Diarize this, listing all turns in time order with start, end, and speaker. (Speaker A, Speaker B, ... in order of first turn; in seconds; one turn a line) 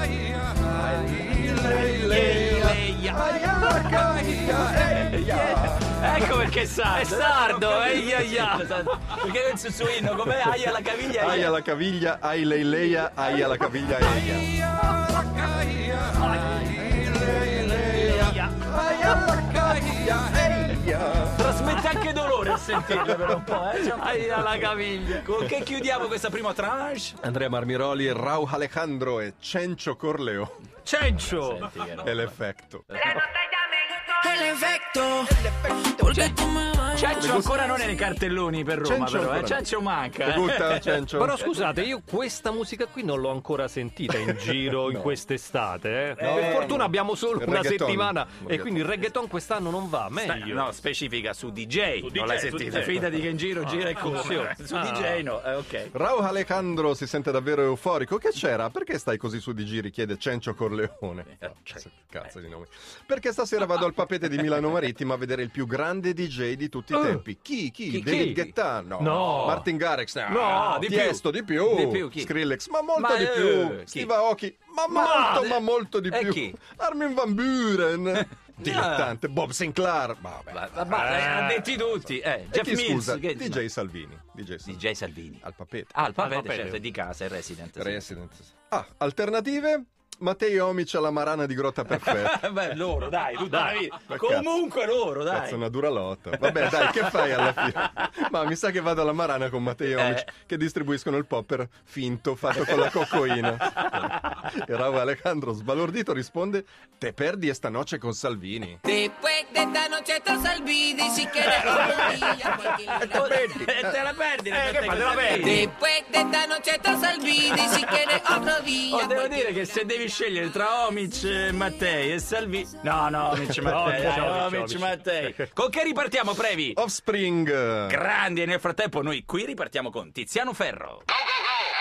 Speaker A: 0.5-6.0
Speaker B: 1.3-4.1
Speaker C: 1.6-3.2
Speaker C: 3.9-11.5
Speaker B: 6.9-9.2
Speaker A: 11.1-14.5
Speaker B: 14.0-19.7
Speaker A: 16.5-21.4
Speaker C: 21.4-27.2
Speaker A: 22.9-23.4
Speaker B: 23.9-25.8
Speaker A: 27.2-30.6
Speaker B: 30.8-31.7
Speaker C: 31.1-32.3
Speaker A: 32.0-32.9
Speaker C: 32.9-33.2
Speaker D: 33.2-35.4
Speaker A: 35.4-36.3
Speaker D: 36.0-37.1
Speaker C: 36.9-41.0
Speaker A: 37.1-37.8
Speaker A: 38.8-39.6
Speaker A: 40.2-41.5
Speaker B: 41.1-50.7
Speaker A: 44.1-45.2
Speaker C: 46.2-46.8
Speaker A: 46.2-48.9
Speaker C: 50.2-55.9
Speaker B: 52.0-53.1
Speaker B: 53.6-55.2
Speaker A: 55.9-81.1
Speaker C: 61.3-61.8
Speaker B: 66.9-67.2
Speaker C: 67.9-68.5
Speaker B: 67.9-68.4
Speaker B: 69.0-69.7
Speaker C: 69.2-69.5
Speaker B: 70.2-71.2
Speaker C: 70.5-72.3
Speaker C: 72.9-74.1
Speaker B: 74.9-75.6
Speaker C: 76.1-76.5
Speaker C: 78.7-79.0
Speaker C: 80.5-83.6
Speaker B: 80.9-81.8
Speaker A: 82.0-84.8
Speaker C: 84.7-85.4
Speaker A: 85.4-85.9
Speaker C: 85.9-88.1
Speaker B: 86.2-86.8
Speaker A: 87.8-92.5
Speaker C: 91.9-95.6
Speaker B: 93.5-93.8
Speaker A: 94.0-94.6
Speaker A: 95.3-108.8
Speaker C: 96.4-98.0
Speaker C: 99.9-100.3
Speaker C: 102.5-104.2
Speaker D: 108.8-113.3
Speaker C: 111.4-115.7
Speaker A: 111.6-112.2
Speaker A: 113.0-114.0
Speaker B: 114.5-115.7
Speaker D: 115.2-119.8
Speaker C: 117.4-126.8
Speaker B: 123.6-125.5
Speaker A: 126.7-128.0
Speaker C: 127.9-131.0